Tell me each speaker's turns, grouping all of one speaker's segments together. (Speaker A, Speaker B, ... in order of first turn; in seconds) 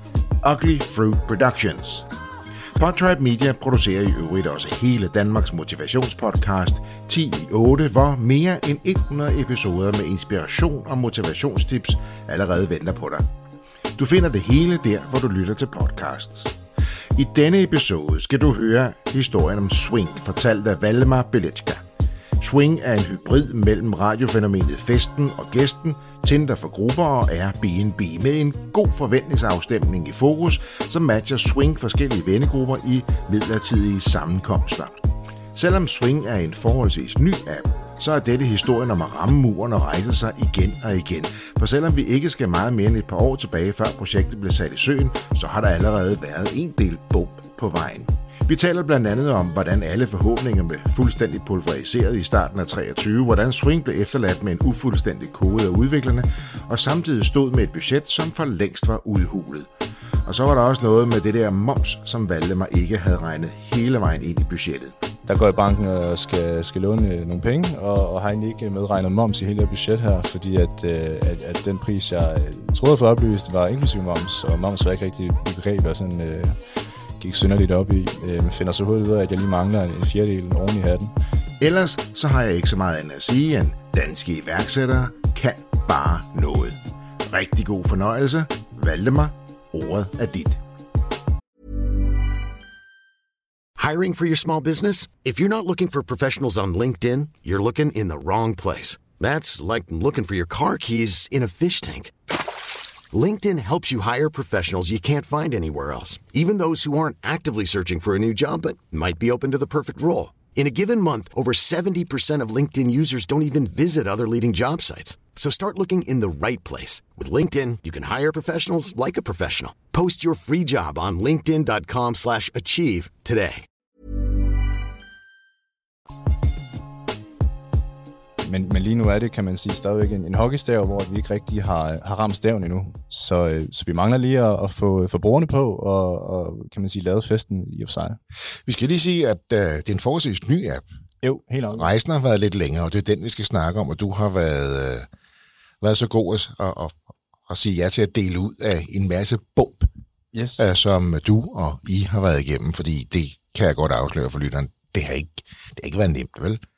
Speaker A: 0.4-2.1, 2.8-13.3, 13.9-16.6, 17.1-21.8, 22.4-35.0, 35.5-59.7, 60.2-64.9, 81.6-90.6, 138.6-140.8, 141.7-145.1, 145.8-149.9, 150.6-156.6
Speaker B: 65.2-76.6, 77.2-81.1, 128.4-138.2, 141.2-141.9, 150.3-150.6
Speaker C: 93.8-102.1, 103.1-123.6